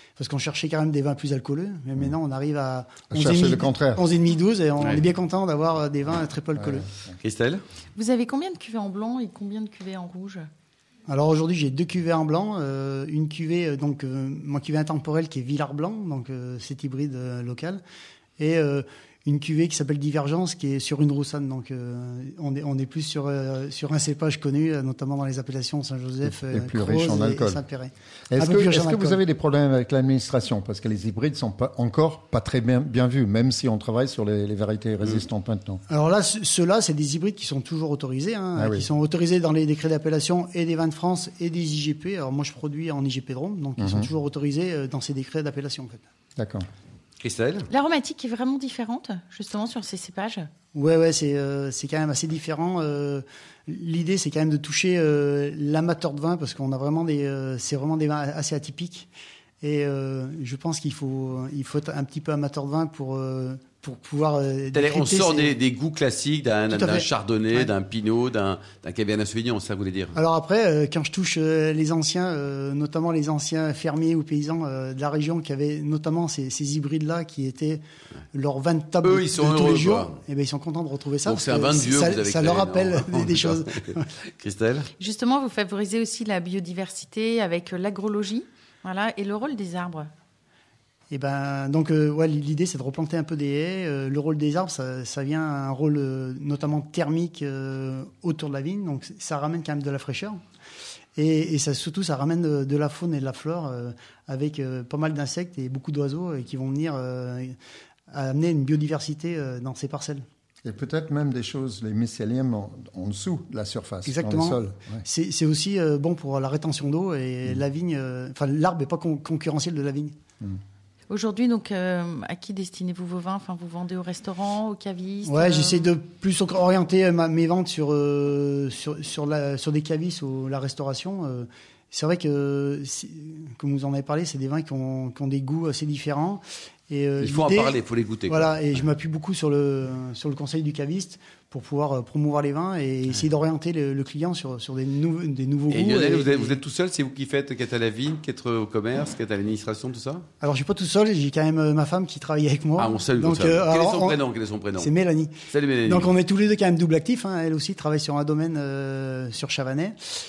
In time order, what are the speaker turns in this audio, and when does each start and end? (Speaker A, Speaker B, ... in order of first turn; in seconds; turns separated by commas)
Speaker A: 0.2-6.9, Speaker B: 3.1-4.1, Speaker B: 6.6-7.2, Speaker C: 7.2-7.6, Speaker D: 8.0-10.5, Speaker A: 11.1-17.8, Speaker A: 18.4-29.2, Speaker B: 26.3-27.6, Speaker B: 28.3-35.8, Speaker A: 35.9-46.0, Speaker B: 38.6-38.9, Speaker B: 43.8-44.1, Speaker B: 46.4-46.7, Speaker C: 47.2-47.7, Speaker D: 47.7-50.5, Speaker A: 50.7-59.1, Speaker A: 59.6-65.6, Speaker C: 64.7-70.2, Speaker A: 66.7-67.7, Speaker A: 70.2-77.8, Speaker A: 78.3-84.1, Speaker C: 79.0-80.2, Speaker C: 81.2-84.9, Speaker D: 85.0-90.1, Speaker A: 91.1-100.4, Speaker A: 101.2-107.5, Speaker A: 108.1-110.2, Speaker B: 110.7-115.0, Speaker A: 114.1-120.2, Speaker D: 121.1-125.9, Speaker A: 125.3-137.8, Speaker C: 137.2-138.5, Speaker A: 138.3-146.6, Speaker C: 145.7-150.3, Speaker A: 150.4-154.2, Speaker C: 152.8-154.9, Speaker A: 154.8-160.0, Speaker C: 155.5-156.1